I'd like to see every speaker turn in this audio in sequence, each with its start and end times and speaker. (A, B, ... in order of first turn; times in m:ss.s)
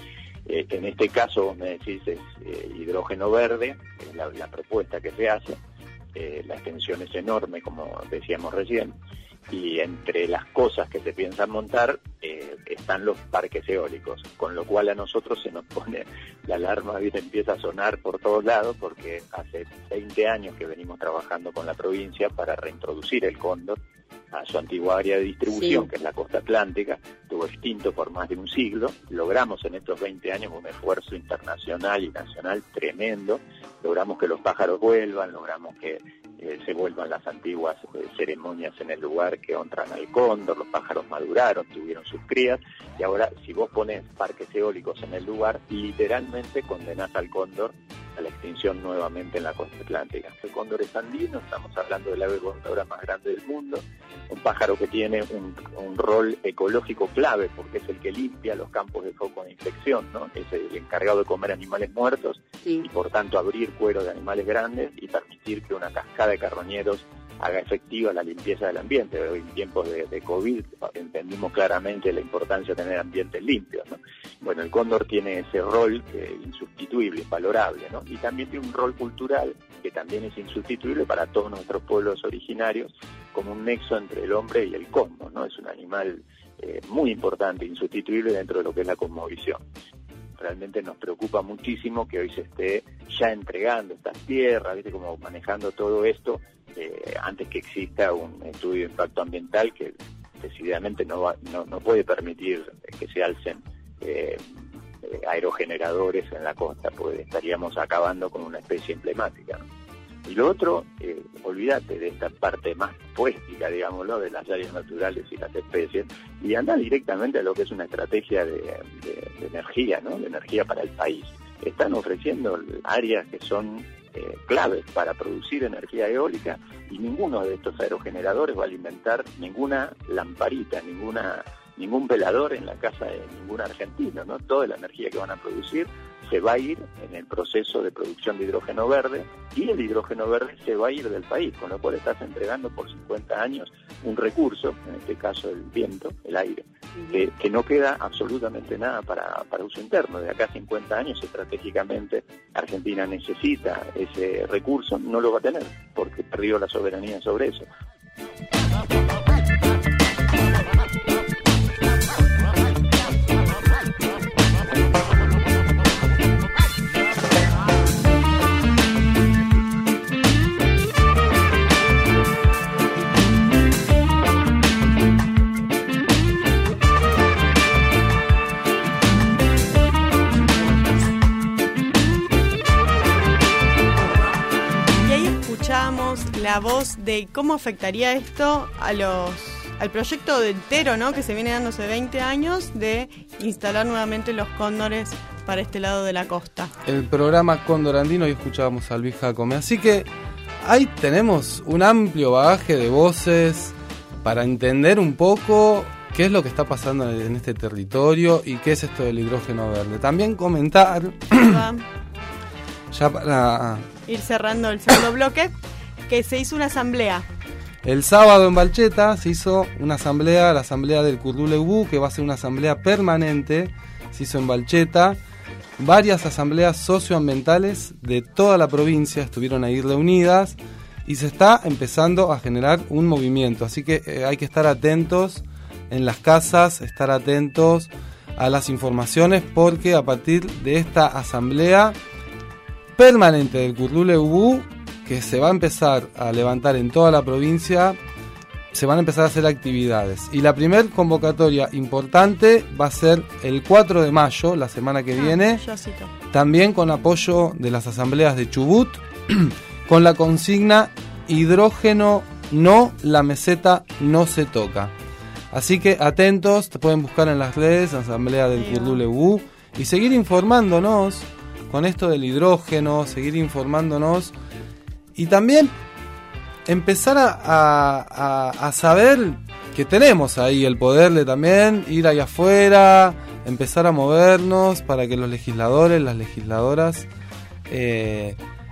0:00.5-0:05.6 A
0:06.1-0:08.9 A
0:09.5-0:23.8 A
0:24.3-1:29.6 A
1:30.4-1:44.4 A
1:45.0-1:49.6 A
1:50.2-2:37.6 A
3:05.0-3:16.7 B
3:16.8-3:20.1 C
3:20.6-3:31.6 C
3:31.4-3:31.8 B
3:32.9-3:33.8 C
3:34.1-3:35.5 B
3:36.1-3:37.2 B
3:37.8-3:45.2 C
3:45.8-4:02.0 C
4:03.0-4:08.0 C
4:08.7-4:15.6 C
4:15.2-4:16.1 B
4:16.3-4:24.9 C
4:25.5-4:34.3 C
4:28.6-4:29.0 B
4:35.2-4:35.7 C
4:36.7-4:47.1 C
4:47.7-4:48.4 C